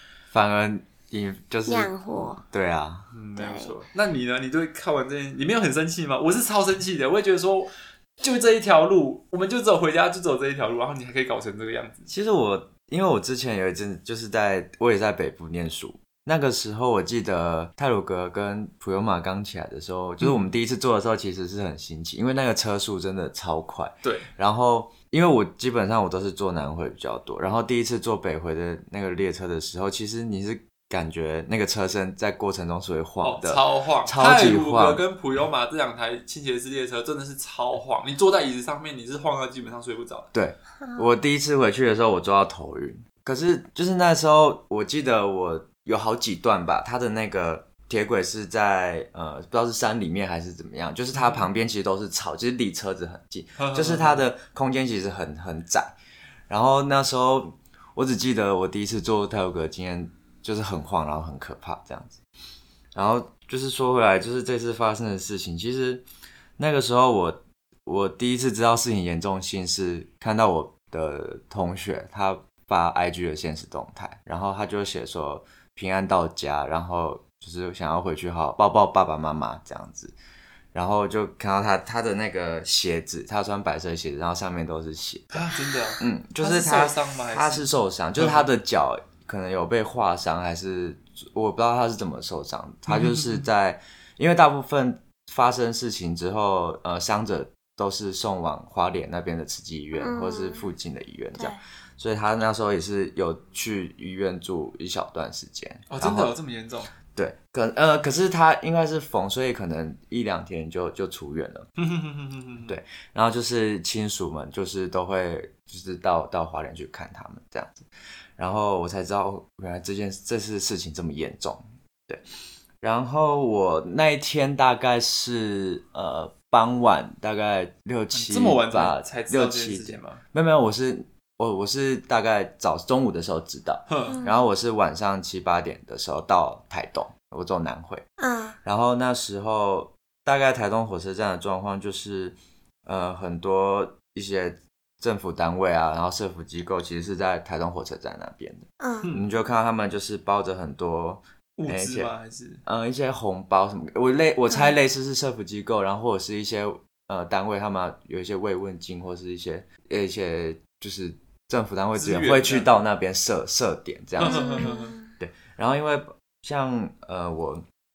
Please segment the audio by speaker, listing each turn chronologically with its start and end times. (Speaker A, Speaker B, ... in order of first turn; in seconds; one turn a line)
Speaker A: 0.3-3.1
Speaker B: 1.7-2.4
Speaker C: 3.1-12.1
Speaker B: 3.4-3.7
Speaker A: 12.1-35.0
Speaker C: 20.2-20.5
Speaker C: 24.0-24.3
Speaker C: 33.2-40.3
Speaker A: 40.3-56.0
Speaker B: 40.8-41.1
Speaker C: 51.1-51.5
Speaker C: 53.6-54.2
Speaker A: 56.5-62.2
Speaker A: 63.0-66.0
Speaker A: 66.6-80.1
Speaker A: 80.7-106.3
Speaker C: 85.3-87.7
Speaker C: 88.2-88.5
Speaker C: 92.9-93.4
Speaker B: 100.0-100.7
Speaker C: 105.9-106.9
Speaker A: 107.1-111.7
Speaker C: 111.8-112.8
Speaker A: 112.7-122.2
Speaker A: 122.8-138.1
Speaker C: 128.1-130.2
Speaker C: 133.9-134.2
Speaker B: 134.1-134.4
Speaker B: 138.2-138.6
Speaker A: 138.6-152.1
Speaker B: 148.8-149.1
Speaker C: 151.6-152.6
Speaker A: 152.6-167.6
Speaker C: 162.0-162.8
Speaker C: 164.2-164.9
Speaker B: 164.2-165.1